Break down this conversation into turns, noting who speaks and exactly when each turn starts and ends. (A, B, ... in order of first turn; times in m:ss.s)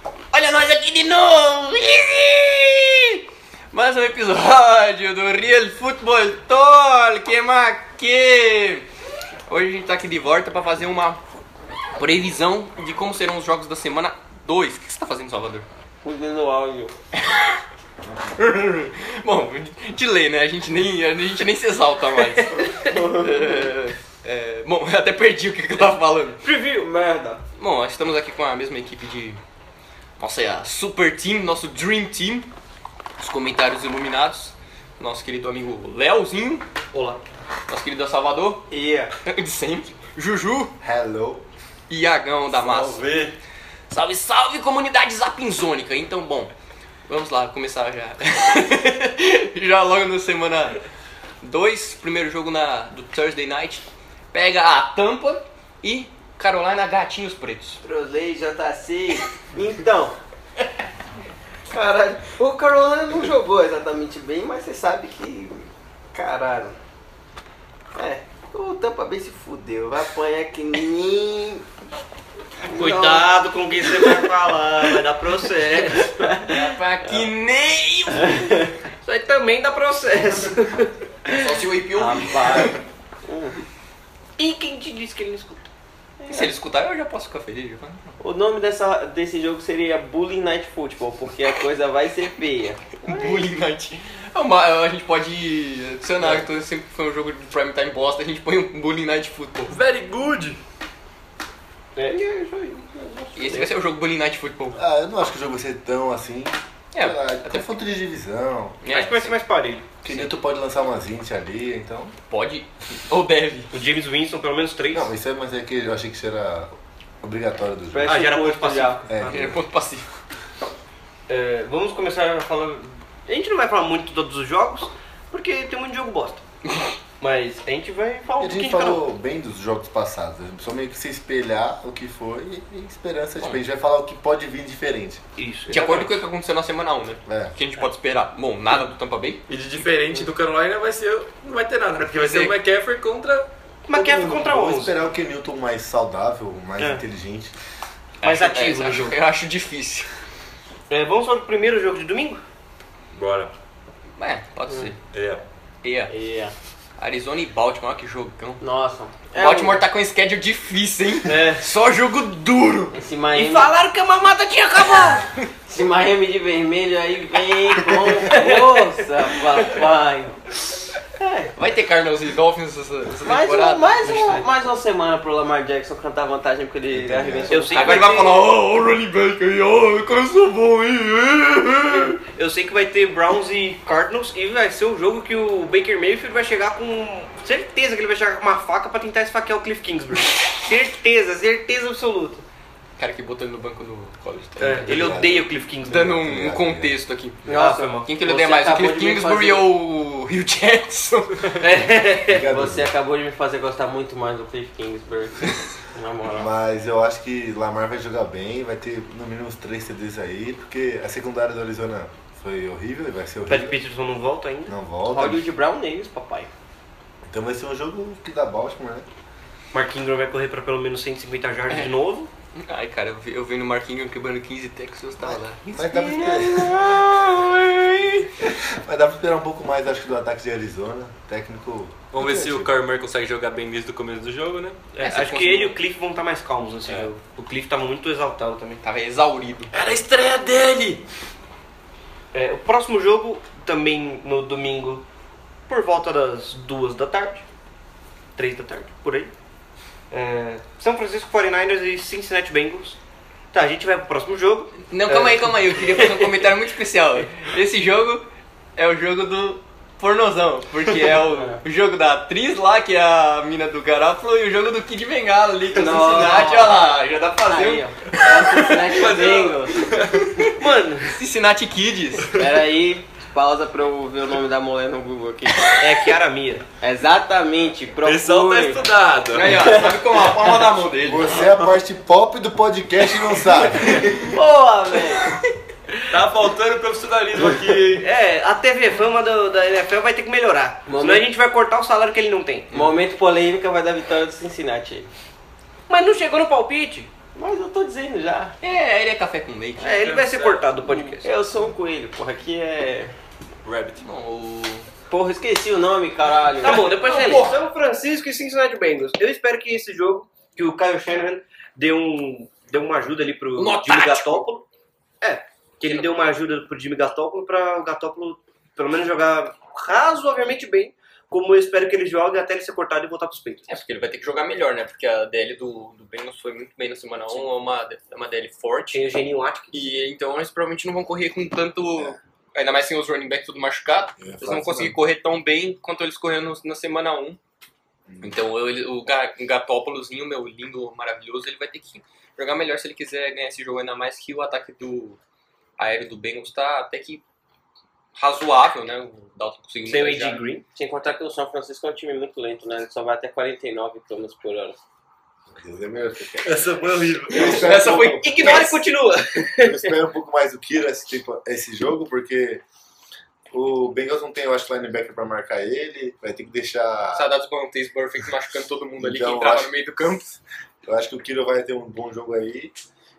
0:00.3-0:08.9 A
0:09.5-0:11.2 A
0:12.0-0:15.7 A
0:16.0-0:16.9 B
0:17.2-0:17.6 A
0:18.3-0:26.4 A
0:22.8-0:23.7 B
0:26.4-0:27.4 C
0:27.6-0:29.4 A
0:30.2-0:32.5 A
0:33.2-0:36.7 A
0:36.9-0:37.2 D
0:37.7-0:38.7 A
0:38.7-0:39.1 B
0:39.2-0:40.7 A
0:40.8-0:41.4 E
0:41.9-0:43.0 A
0:42.5-0:43.4 D
0:43.9-0:46.5 A
0:47.1-0:50.8 A
0:51.4-0:57.8 A
0:57.8-1:00.2 B
1:01.7-1:06.8 B
1:07.9-1:11.6 B
1:12.7-1:16.4 C
1:12.8-1:13.2 A
1:16.4-1:18.5 A
1:18.3-1:18.6 B
1:19.0-1:20.9 C
1:21.3-1:22.8 A
1:21.9-1:23.6 B
1:24.4-1:25.7 C
1:26.2-1:26.5 B
1:26.3-1:28.1 A
1:28.2-1:33.4 B
1:33.0-1:39.8 A
1:39.7-1:40.6 D
1:42.0-1:43.7 C
1:43.4-1:44.8 A
1:44.8-1:48.8 E
1:46.9-1:47.7 A
1:48.8-1:49.4 A
1:48.9-1:49.9 C
1:50.0-1:52.2 E
1:52.3-1:53.7 A
1:53.7-1:55.1 C
1:54.9-1:58.2 E
1:57.9-1:59.0 B
1:58.0-1:59.4 C
1:59.1-1:59.6 E
1:59.2-2:00.1 A
2:01.3-2:06.4 C
2:07.2-2:09.0 C
2:08.4-2:15.2 E
2:15.4-2:16.1 C
2:15.7-2:19.4 A
2:17.3-2:17.5 E
2:19.5-2:23.5 D
2:22.0-2:22.6 A
2:23.9-2:25.0 C
2:23.9-2:27.5 E
2:26.8-2:27.0 C
2:28.2-2:30.1 A
2:28.2-2:29.2 C
2:30.9-2:32.4 C
2:33.1-2:33.5 D
2:34.2-2:35.0 A
2:35.1-2:35.4 D
2:35.8-2:36.1 A
2:36.1-2:36.5 B
2:37.0-2:38.6 A
2:38.6-2:39.8 B
2:39.4-2:42.9 A
2:41.2-2:41.6 C
2:42.9-2:43.7 B
2:43.3-2:45.3 C
2:45.6-2:50.4 B
2:48.0-2:49.0 C
2:51.2-2:51.5 B
2:51.6-2:54.4 A
2:53.2-2:58.1 B
2:56.9-2:57.7 E
2:57.5-2:58.4 C
2:57.7-3:02.2 A
3:02.3-3:12.4 C
3:13.0-3:15.2 A
3:14.6-3:16.9 E
3:14.6-3:16.1 C
3:15.9-3:21.6 A
3:17.4-3:19.6 B
3:17.5-3:18.1 C
3:21.6-3:22.4 C
3:22.3-3:22.9 E
3:22.4-3:26.5 B
3:26.3-3:33.8 E
3:33.5-3:34.7 C
3:34.7-3:35.4 E
3:35.1-3:36.5 B
3:37.3-3:39.1 E
3:39.7-3:42.3 C
3:42.6-3:45.6 A
3:45.2-3:47.0 E
3:45.7-3:48.1 B
3:46.4-3:48.0 A
3:48.4-3:52.7 E
3:52.1-3:54.9 D
3:55.0-3:58.8 C
3:55.0-3:55.8 A
3:58.8-3:59.7 A
3:59.7-4:01.0 D
4:02.3-4:05.0 C
4:05.7-4:07.4 C
4:08.4-4:09.3 C
4:10.1-4:13.0 C
4:13.5-4:16.1 C
4:14.9-4:29.2 A
4:21.3-4:21.6 C
4:25.7-4:26.8 B
4:27.4-4:29.9 B
4:28.9-4:30.4 D
4:30.2-4:30.6 A
4:30.6-4:31.2 C
4:31.1-4:32.3 A
4:32.3-4:35.9 B
4:35.8-4:36.6 C
4:36.8-4:40.0 B
4:38.0-4:39.8 D
4:39.3-4:41.5 A
4:41.0-4:44.3 E
4:43.9-4:44.2 D
4:44.3-4:45.3 B
4:46.1-4:48.1 D
4:48.0-4:52.7 C
4:50.9-4:51.2 B
4:52.7-4:55.1 B
4:55.9-4:57.1 C
4:57.4-4:58.6 B
4:58.6-5:00.0 A
4:59.8-5:01.3 C
4:59.8-5:00.8 D
5:00.9-5:01.1 A
5:01.2-5:03.1 B
5:03.6-5:04.0 D
5:04.0-5:04.9 A
5:05.1-5:06.9 B
5:06.6-5:14.6 C
5:06.7-5:07.5 A
5:13.6-5:14.5 A
5:15.2-5:23.8 C
5:15.8-5:16.1 A
5:23.7-5:29.1 A
5:28.9-5:29.8 C
5:29.7-5:37.4 A
5:34.2-5:34.9 E
5:38.1-5:38.4 E
5:38.2-5:45.2 A
5:45.8-5:47.2 A
5:48.2-5:50.5 A
5:49.9-5:50.6 C
5:50.8-5:54.8 B
5:55.5-5:56.7 E
5:56.4-5:57.9 D
5:57.2-5:58.6 E
5:57.3-5:58.8 A
5:57.4-5:59.9 C
5:59.5-6:02.6 E
6:03.5-6:07.3 E
6:07.1-6:10.3 A
6:09.0-6:09.7 E
6:10.8-6:12.8 E